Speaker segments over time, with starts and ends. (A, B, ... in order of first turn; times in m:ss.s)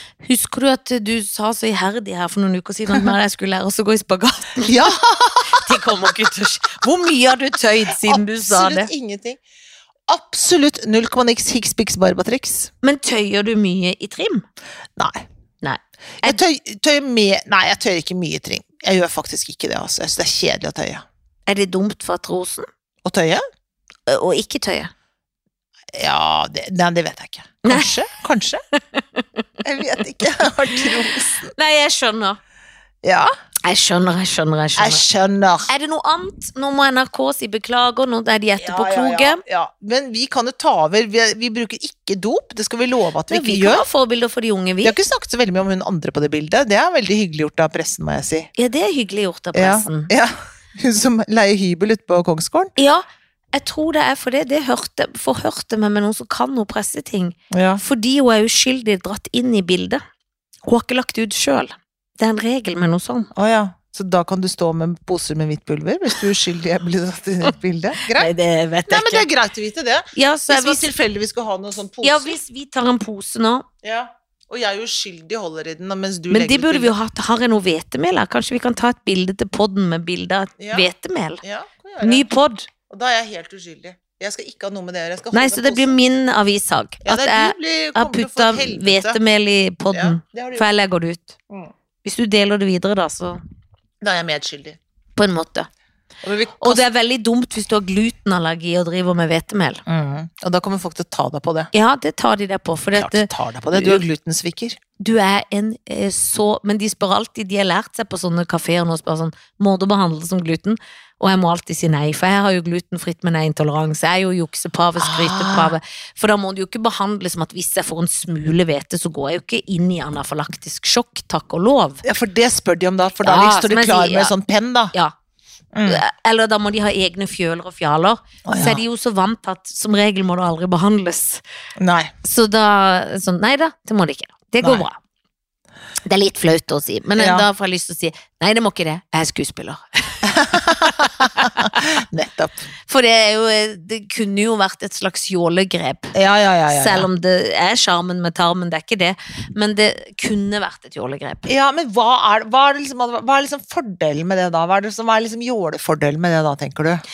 0:00.2-0:04.9 A
0:04.6-0:06.0 B
0:05.5-0:08.9 A
0:07.9-0:09.4 B
0:10.1-0:12.7 B
0:12.8-0:14.4 A
0:15.0-0:15.2 B
0:15.6-0:16.4 A
0:16.2-0:21.0 B
0:21.5-0:22.7 A
0:23.0-0:23.4 B
0:24.1-0:24.9 A
0:25.9-0:28.6 B
0:27.6-0:27.9 A
0:28.9-0:29.4 A
0:29.6-0:31.5 B
0:30.8-0:32.4 A
0:33.0-0:33.3 B
0:33.6-0:35.0 A
0:34.8-0:35.7 B
0:35.7-0:39.4 A
0:38.6-0:43.8 B
0:43.3-0:45.0 A
0:44.8-0:48.5 B
0:48.6-0:50.1 A
0:49.5-0:52.7 B
0:52.8-1:00.0 A
0:57.5-0:57.8 B
1:00.6-1:03.3 A
1:03.3-1:08.3 B
1:08.1-1:09.3 A
1:08.9-1:12.4 B
1:10.1-1:10.9 A
1:12.0-1:13.6 A
1:13.8-1:16.9 B
1:16.3-1:21.4 A
1:20.6-1:20.9 B
1:21.4-1:22.2 B
1:22.0-1:22.7 A
1:22.9-1:26.0 B
1:25.3-1:31.4 A
1:27.0-1:29.2 B
1:29.9-1:30.6 B
1:32.0-1:33.4 A
1:34.0-1:34.8 B
1:35.2-1:35.7 A
1:36.2-1:36.8 B
1:36.6-1:39.8 A
1:39.9-1:41.7 B
1:41.7-1:44.0 A
1:42.9-1:44.8 B
1:45.0-2:02.0 A
1:55.0-1:55.8 B
2:02.0-2:04.9 B
2:03.2-2:04.3 A
2:05.7-2:06.0 B
2:05.8-2:11.4 A
2:08.4-2:08.8 B
2:11.8-2:12.1 B
2:12.2-2:15.0 A
2:16.0-2:21.8 A
2:17.2-2:17.4 B
2:20.2-2:22.6 B
2:22.9-2:26.1 A
2:26.1-2:27.1 B
2:26.7-2:31.5 A
2:31.4-2:37.0 B